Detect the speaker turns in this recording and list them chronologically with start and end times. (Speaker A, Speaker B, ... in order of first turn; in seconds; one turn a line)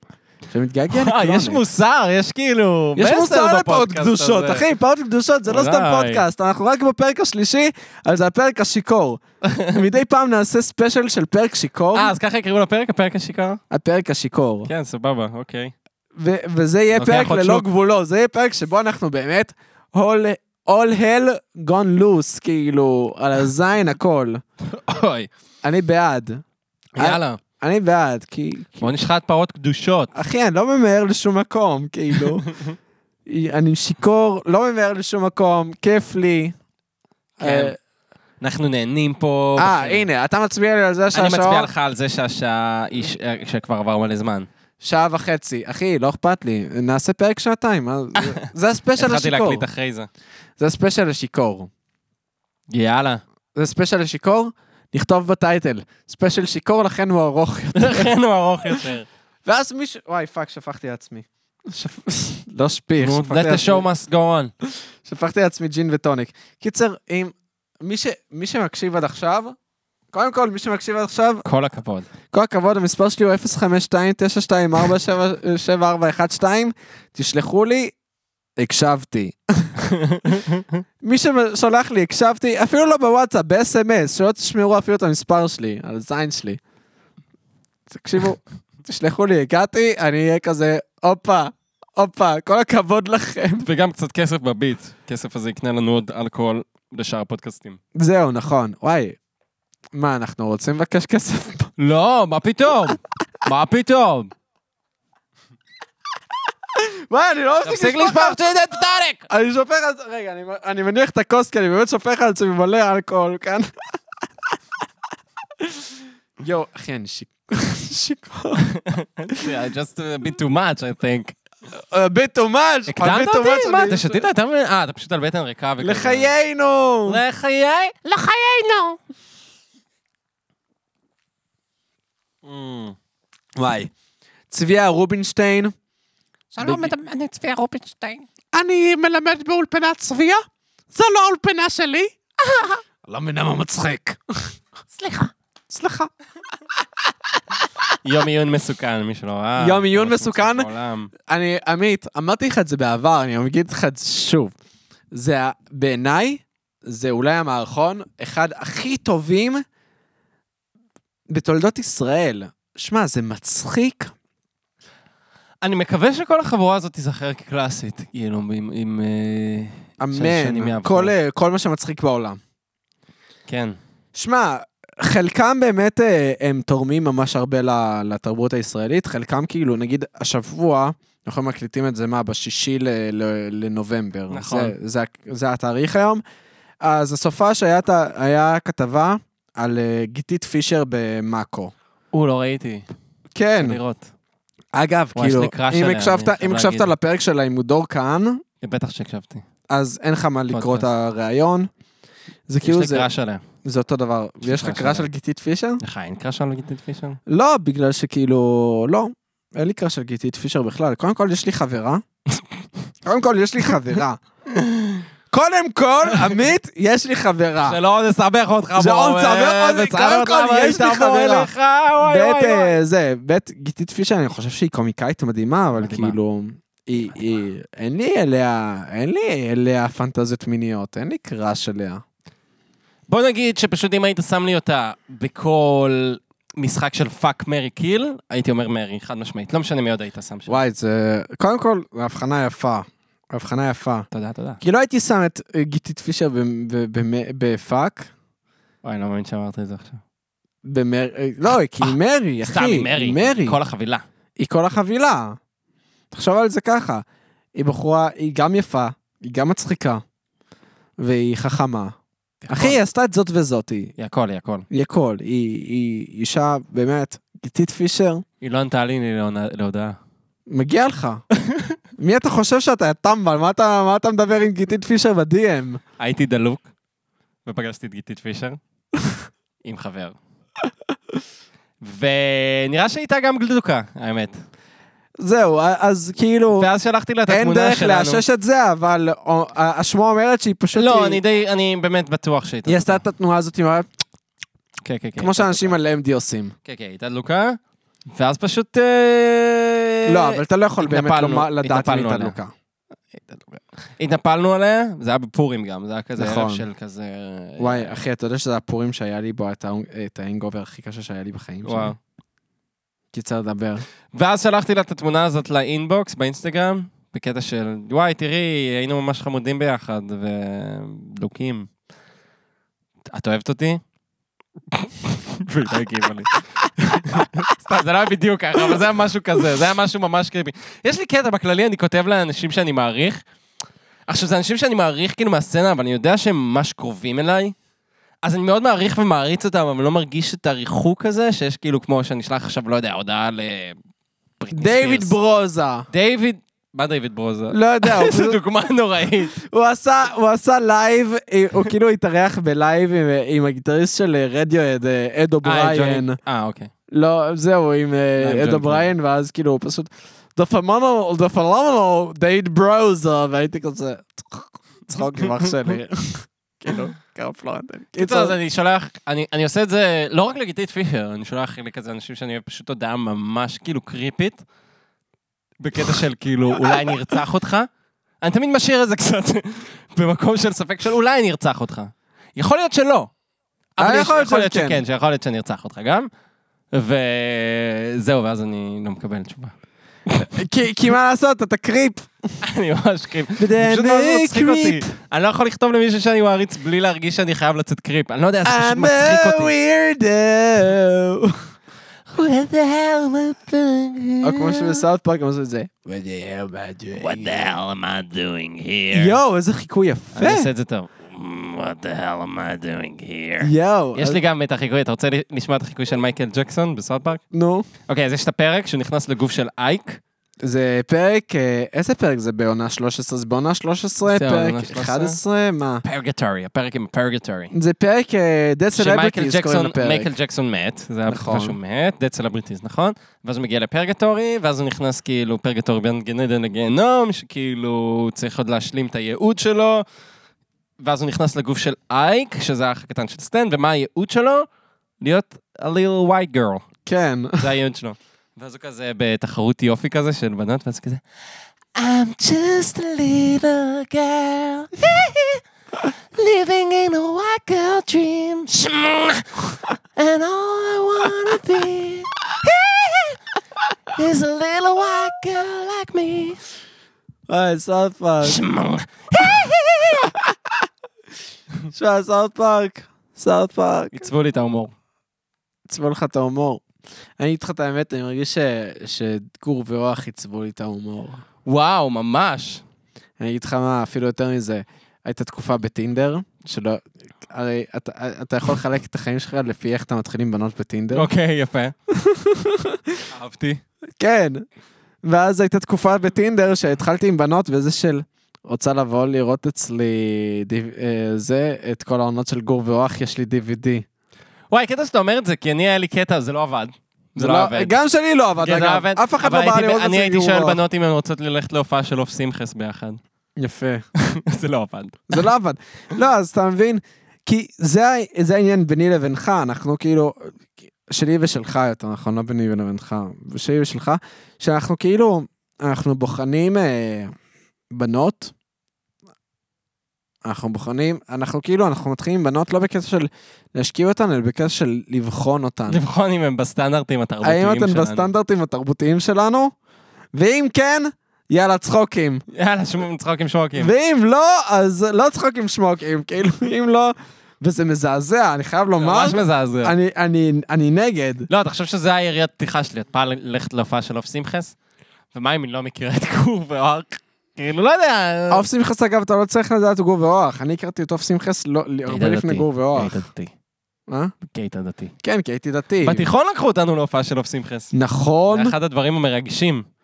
Speaker A: 0.5-1.6
Speaker B: 0.9-4.7
Speaker A: 3.0-12.1
Speaker B: 5.5-6.2
Speaker B: 9.4-9.8
Speaker B: 11.9-13.6
Speaker A: 13.7-14.7
Speaker B: 14.7-15.7
Speaker A: 16.2-24.4
Speaker B: 16.9-17.7
Speaker B: 24.6-25.3
Speaker A: 25.6-26.4
Speaker B: 27.0-27.4
Speaker A: 27.0-28.9
Speaker B: 28.8-30.1
Speaker A: 30.1-32.5
Speaker A: 33.3-36.6
Speaker A: 37.4-37.8
Speaker B: 37.4-37.8
Speaker B: 38.4-40.1
Speaker A: 39.6-41.7
Speaker B: 41.1-44.5
Speaker A: 44.8-49.7
Speaker B: 48.1-50.1
Speaker A: 50.6-51.7
Speaker B: 52.7-53.2
Speaker A: 53.5-58.1
Speaker B: 57.8-59.1
Speaker A: 59.5-63.9
Speaker B: 63.0-64.5
Speaker A: 64.7-69.6
Speaker A: 70.1-71.4
Speaker B: 71.5-72.1
Speaker A: 72.3-78.0
Speaker A: 78.6-79.8
Speaker B: 79.9-80.8
Speaker A: 81.0-86.6
Speaker A: 87.9-93.7
Speaker B: 93.6-97.8
Speaker A: 98.0-99.2
Speaker A: 99.9-101.7
Speaker B: 101.8-104.3
Speaker A: 106.7-108.4
Speaker B: 107.6-109.3
Speaker A: 109.3-113.7
Speaker A: 115.6-118.7
Speaker B: 118.7-121.3
Speaker A: 121.7-124.2
Speaker B: 122.9-126.3
Speaker A: 125.8-127.2
Speaker B: 127.1-128.0
Speaker C: 128.0-129.0
Speaker B: 132.4-133.0
Speaker A: 133.6-133.9
Speaker A: 134.5-135.7
Speaker C: 136.5-138.3
Speaker A: 136.6-136.9
Speaker A: 138.5-140.4
Speaker A: 140.9-142.2
Speaker C: 142.4-142.8
Speaker A: 143.1-144.6
Speaker C: 144.9-145.3
Speaker A: 145.7-146.1
Speaker B: 148.0-151.1
Speaker A: 149.6-150.7
Speaker A: 151.3-154.5
Speaker A: 155.1-159.6
Speaker A: 161.3-164.1
Speaker B: 165.6-171.1
Speaker A: 170.0-172.4
Speaker B: 173.5-173.8
Speaker A: 174.2-186.2
Speaker B: 184.3-184.8
Speaker A: 186.8-191.7
Speaker B: 192.1-192.9
Speaker A: 193.3-193.8
Speaker B: 193.6-194.1
Speaker A: 194.7-198.4
Speaker B: 195.2-196.9
Speaker B: 198.6-199.4
Speaker A: 199.7-201.7
Speaker B: 200.5-200.9
Speaker A: 202.5-203.1
Speaker B: 202.6-203.4
Speaker A: 203.6-205.8
Speaker B: 204.4-205.1
Speaker B: 205.8-207.2
Speaker A: 207.3-212.0
Speaker A: 213.0-214.2
Speaker B: 214.5-215.0
Speaker A: 215.3-217.8
Speaker B: 217.6-222.8
Speaker A: 218.8-232.0
Speaker B: 225.8-226.2
Speaker B: 233.1-240.6
Speaker A: 240.5-244.1
Speaker B: 244.1-244.6
Speaker A: 244.6-248.1
Speaker B: 248.8-250.0
Speaker A: 250.6-253.6
Speaker B: 252.4-254.0
Speaker A: 254.4-255.4
Speaker A: 256.1-257.0
Speaker A: 257.6-260.0
Speaker A: 261.0-262.0
Speaker B: 262.4-262.8
Speaker A: 262.5-263.9
Speaker B: 264.0-264.7
Speaker A: 264.7-268.2
Speaker B: 268.4-270.0
Speaker A: 270.5-271.2
Speaker A: 272.0-275.8
Speaker B: 276.0-276.7
Speaker B: 277.5-278.6
Speaker B: 279.6-280.2
Speaker B: 281.8-284.4
Speaker A: 285.2-286.7
Speaker B: 286.6-288.2
Speaker A: 287.3-291.2
Speaker B: 290.7-293.0
Speaker A: 292.7-293.9
Speaker B: 294.8-295.8
Speaker A: 295.2-296.5
Speaker B: 296.6-297.6
Speaker B: 298.1-302.4
Speaker A: 300.1-302.5
Speaker B: 303.1-308.0
Speaker A: 306.2-306.6
Speaker A: 307.6-311.9
Speaker B: 311.6-312.0
Speaker A: 313.1-313.8
Speaker B: 314.1-321.7
Speaker B: 323.1-323.8
Speaker B: 324.7-333.2
Speaker B: 334.1-337.6
Speaker B: 338.2-343.8
Speaker B: 344.4-345.1
Speaker A: 344.5-345.9
Speaker B: 345.9-349.4
Speaker A: 347.5-348.4
Speaker A: 349.4-356.2
Speaker B: 355.4-356.7
Speaker A: 356.9-368.4
Speaker B: 358.2-358.9
Speaker B: 367.9-374.4
Speaker B: 375.6-377.7
Speaker B: 378.2-383.1
Speaker B: 383.8-386.1
Speaker A: 383.8-384.8
Speaker B: 386.7-389.5
Speaker A: 390.1-392.4
Speaker B: 392.4-399.5
Speaker A: 393.4-394.9
Speaker A: 398.4-401.4
Speaker B: 402.1-404.8
Speaker A: 404.2-407.4
Speaker B: 407.0-409.1
Speaker A: 408.9-410.5
Speaker B: 410.1-417.2
Speaker A: 413.4-414.2
Speaker A: 417.3-417.7
Speaker B: 417.9-420.0
Speaker A: 420.4-425.8
Speaker B: 424.1-425.2
Speaker B: 425.8-427.5
Speaker A: 427.5-430.1
Speaker B: 428.7-439.9
Speaker A: 431.1-431.6
Speaker B: 440.8-444.5
Speaker B: 445.0-446.6
Speaker A: 446.9-447.4
Speaker B: 447.4-451.0
Speaker B: 451.8-455.4
Speaker B: 456.1-463.2
Speaker B: 463.9-466.4
Speaker A: 467.3-468.4
Speaker B: 468.2-470.1
Speaker A: 470.0-470.3
Speaker A: 471.7-474.1
Speaker B: 473.9-474.7
Speaker A: 475.7-476.6
Speaker A: 477.2-481.2
Speaker B: 481.5-482.6
Speaker A: 483.2-491.1
Speaker B: 490.9-491.7
Speaker A: 491.9-493.0
Speaker B: 493.1-493.6
Speaker A: 494.0-494.4
Speaker A: 495.0-503.9
Speaker B: 504.5-507.8
Speaker A: 507.2-510.6
Speaker B: 508.4-513.0
Speaker A: 513.4-513.9
Speaker B: 514.0-515.2
Speaker A: 515.1-527.1
Speaker A: 527.7-528.3
Speaker A: 530.2-535.8
Speaker B: 535.7-538.1
Speaker A: 537.2-539.5
Speaker A: 540.1-542.2
Speaker B: 542.3-543.7
Speaker A: 543.6-551.3
Speaker B: 548.8-549.8
Speaker B: 551.3-554.5
Speaker B: 555.1-558.5
Speaker A: 558.3-563.0
Speaker B: 561.9-563.3
Speaker A: 563.9-564.1
Speaker B: 564.2-564.9
Speaker A: 565.0-566.1
Speaker B: 565.8-567.7
Speaker A: 567.7-568.5
Speaker B: 568.3-569.7